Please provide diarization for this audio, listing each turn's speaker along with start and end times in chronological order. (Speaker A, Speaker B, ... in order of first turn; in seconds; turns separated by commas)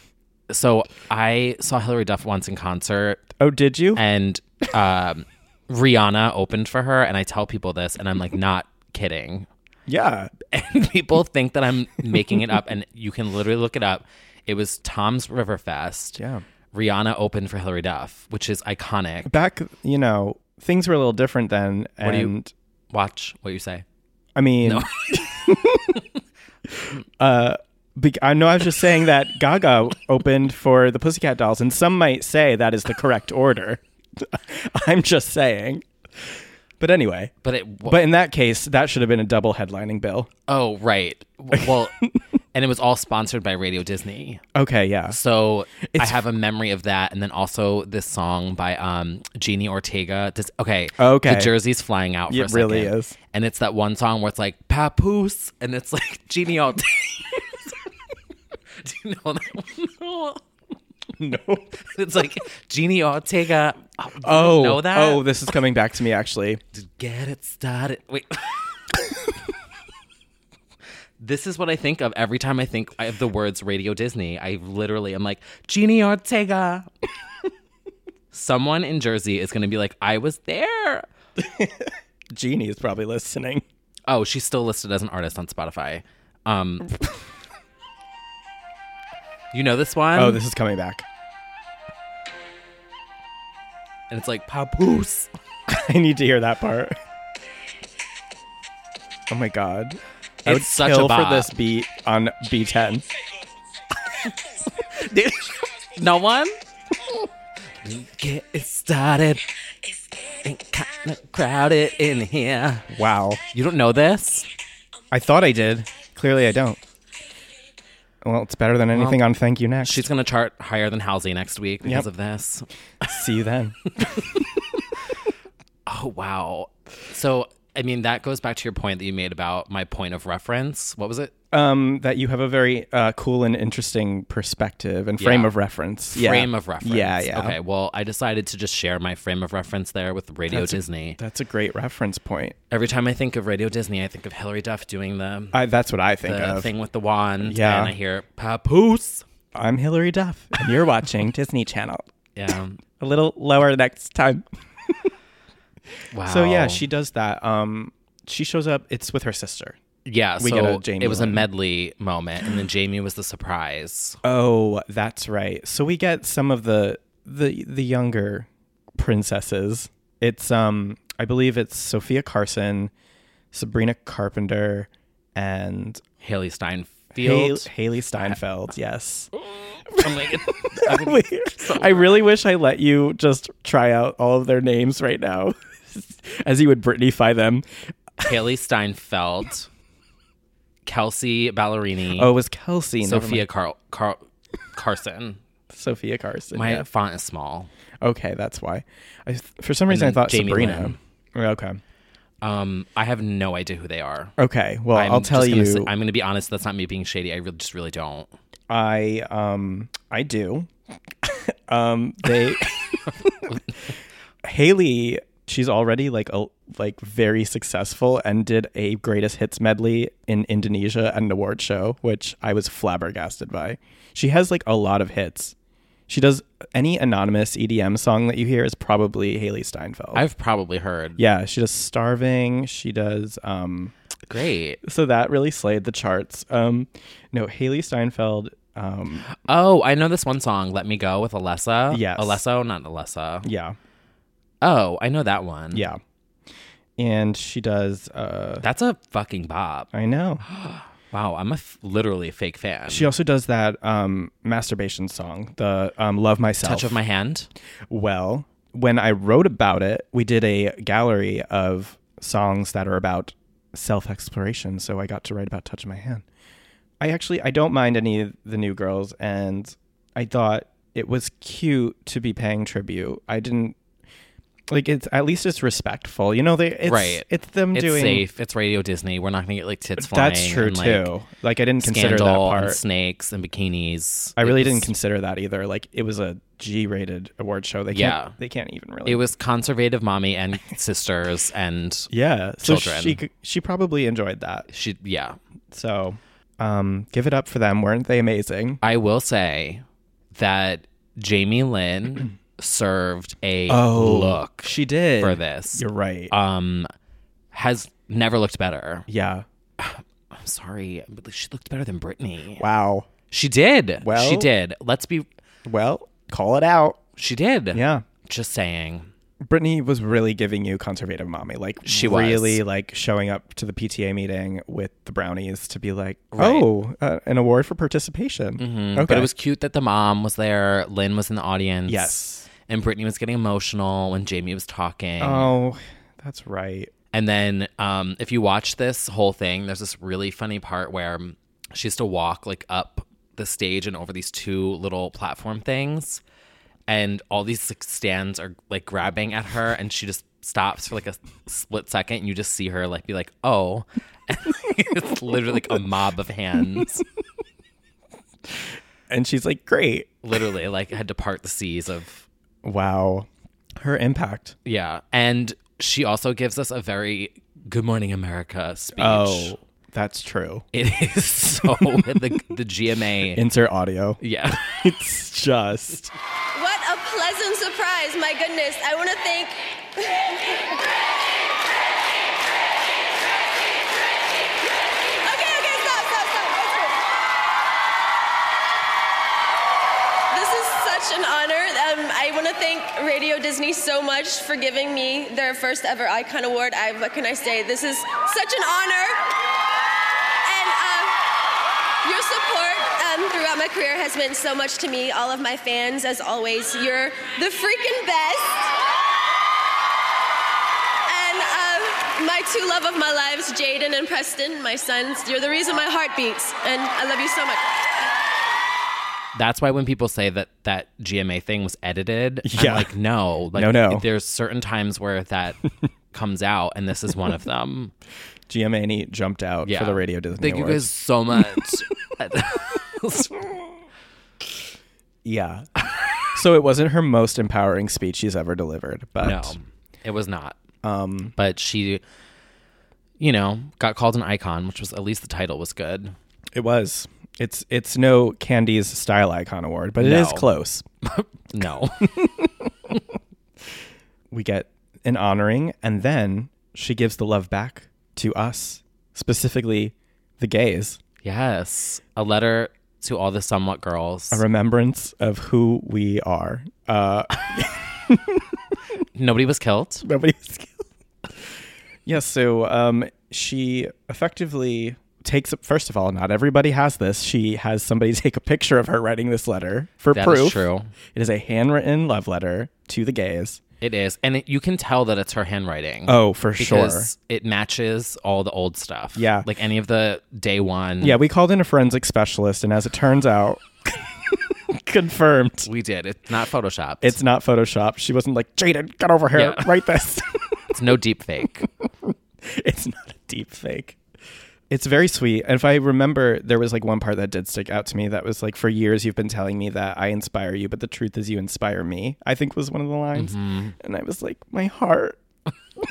Speaker A: 0.5-3.3, Speaker B: 3.4-4.0, Speaker A: 4.0-9.5, Speaker B: 9.9-10.3, Speaker A: 10.5-16.2, Speaker B: 16.2-16.4, Speaker A: 16.7-19.3, Speaker B: 19.3-22.5, Speaker A: 22.0-22.3, Speaker A: 22.9-23.9, Speaker B: 24.4-26.0, Speaker A: 24.6-26.0, Speaker B: 26.8-35.8, Speaker B: 36.8-37.3, Speaker A: 37.4-38.0, Speaker B: 37.8-40.3, Speaker A: 40.5-42.0, Speaker A: 42.5-44.4, Speaker B: 44.5-45.2, Speaker A: 45.1-57.8, Speaker B: 45.9-46.2, Speaker B: 51.0-51.5, Speaker B: 52.3-53.2, Speaker A: 58.8-60.4, Speaker B: 61.2-61.8, Speaker A: 61.8-65.3, Speaker B: 64.2-66.6, Speaker A: 66.7-69.0, Speaker A: 71.2-76.9, Speaker A: 78.3-81.1, Speaker B: 81.4-83.6, Speaker A: 84.1-86.9, Speaker A: 89.5-90.4, Speaker B: 90.2-91.0, Speaker A: 94.1-95.3, Speaker B: 95.7-96.9, Speaker B: 99.3-103.0, Speaker A: 100.4-101.5, Speaker A: 104.3-106.6, Speaker A: 107.8-109.4, Speaker A: 110.4-112.9, Speaker B: 112.9-113.4, Speaker A: 113.5-114.5, Speaker B: 115.1-116.8, Speaker B: 118.2-120.1, Speaker A: 118.9-119.2, Speaker A: 119.8-123.1, Speaker B: 123.0-124.2, Speaker A: 125.9-131.3, Speaker B: 131.5-137.6, Speaker A: 135.2-135.5, Speaker A: 136.1-141.2, Speaker B: 140.5-142.6, Speaker A: 142.7-145.6, Speaker B: 145.5-146.7, Speaker A: 146.2-149.2, Speaker B: 147.4-147.9, Speaker B: 149.6-152.1, Speaker A: 152.4-152.8, Speaker B: 153.0-154.4, Speaker A: 156.1-156.9, Speaker B: 156.2-159.8, Speaker A: 160.1-164.2, Speaker B: 160.4-161.5, Speaker B: 164.2-172.9, Speaker B: 173.5-176.0, Speaker A: 176.2-177.7, Speaker B: 177.2-179.3, Speaker A: 179.9-182.3, Speaker B: 179.9-187.7, Speaker A: 188.2-189.7, Speaker A: 190.9-192.3, Speaker B: 192.2-193.4, Speaker A: 193.0-195.4, Speaker B: 195.7-196.9, Speaker A: 196.5-197.7, Speaker B: 198.0-201.8, Speaker A: 199.9-201.0, Speaker A: 202.4-204.3, Speaker B: 204.4-205.9, Speaker A: 204.9-208.3, Speaker B: 208.7-210.7, Speaker B: 211.2-213.4, Speaker B: 214.4-225.6, Speaker B: 226.1-230.2, Speaker A: 230.1-231.2, Speaker B: 231.2-233.9, Speaker A: 234.3-234.8, Speaker B: 234.8-239.3, Speaker A: 239.3-243.5, Speaker B: 241.9-242.4, Speaker B: 243.4-243.8, Speaker A: 244.6-245.9, Speaker B: 245.7-246.0, Speaker B: 247.0-248.7, Speaker A: 248.6-249.9, Speaker B: 249.9-250.4, Speaker A: 250.5-253.1, Speaker B: 252.9-257.0, Speaker A: 256.6-257.5, Speaker B: 257.9-266.2, Speaker B: 267.0-273.8, Speaker B: 274.7-278.3, Speaker A: 276.8-281.1, Speaker B: 280.0-282.8, Speaker A: 281.8-284.9, Speaker B: 284.4-289.2, Speaker A: 287.9-288.4, Speaker A: 289.1-292.1, Speaker B: 292.1-294.7, Speaker A: 292.6-293.2, Speaker A: 294.7-295.4, Speaker B: 295.7-298.8, Speaker A: 298.8-306.9, Speaker B: 303.7-306.3, Speaker A: 307.5-309.1, Speaker B: 309.1-309.4, Speaker A: 309.8-312.6, Speaker B: 312.6-313.1, Speaker A: 313.3-315.3, Speaker B: 314.0-314.5, Speaker B: 315.6-317.0, Speaker A: 317.2-319.1, Speaker B: 317.7-318.1, Speaker B: 319.4-329.3, Speaker A: 321.9-322.6, Speaker A: 326.3-326.7, Speaker A: 328.6-335.5, Speaker B: 331.9-332.5, Speaker B: 335.2-336.9, Speaker A: 337.1-346.2, Speaker A: 346.9-357.0, Speaker B: 359.1-360.1, Speaker A: 360.2-362.3, Speaker B: 362.6-363.3, Speaker B: 363.8-364.6, Speaker A: 364.6-369.5, Speaker B: 369.0-370.7, Speaker A: 370.7-373.4, Speaker B: 371.7-372.1, Speaker B: 373.4-374.2, Speaker A: 374.2-374.8, Speaker B: 374.8-376.1, Speaker C: 376.6-380.4, Speaker C: 385.2-387.0, Speaker C: 390.3-399.2, Speaker C: 400.4-401.2, Speaker C: 402.0-408.7, Speaker C: 411.1-417.8, Speaker A: 419.3-425.6, Speaker B: 422.4-422.9, Speaker B: 423.5-424.1, Speaker A: 426.1-427.9, Speaker B: 428.5-430.9, Speaker A: 429.6-433.6, Speaker B: 435.2-435.7, Speaker B: 436.3-439.6, Speaker A: 439.2-440.6, Speaker B: 440.8-441.3, Speaker A: 441.4-442.0, Speaker A: 443.2-446.1, Speaker B: 446.6-450.9, Speaker A: 450.0-450.5, Speaker A: 451.0-452.1, Speaker B: 452.2-452.5, Speaker B: 454.3-461.0, Speaker A: 461.2-464.4, Speaker B: 464.3-468.4, Speaker A: 469.1-470.1, Speaker B: 470.1-470.8, Speaker B: 472.1-483.6, Speaker A: 480.1-480.9, Speaker A: 483.8-491.2, Speaker B: 486.1-487.1, Speaker B: 489.1-489.5, Speaker B: 491.0-495.7, Speaker A: 495.6-497.2, Speaker B: 497.0-500.4, Speaker A: 499.3-499.7, Speaker A: 500.7-501.7, Speaker B: 501.8-504.0, Speaker B: 504.7-515.2, Speaker A: 513.1-513.8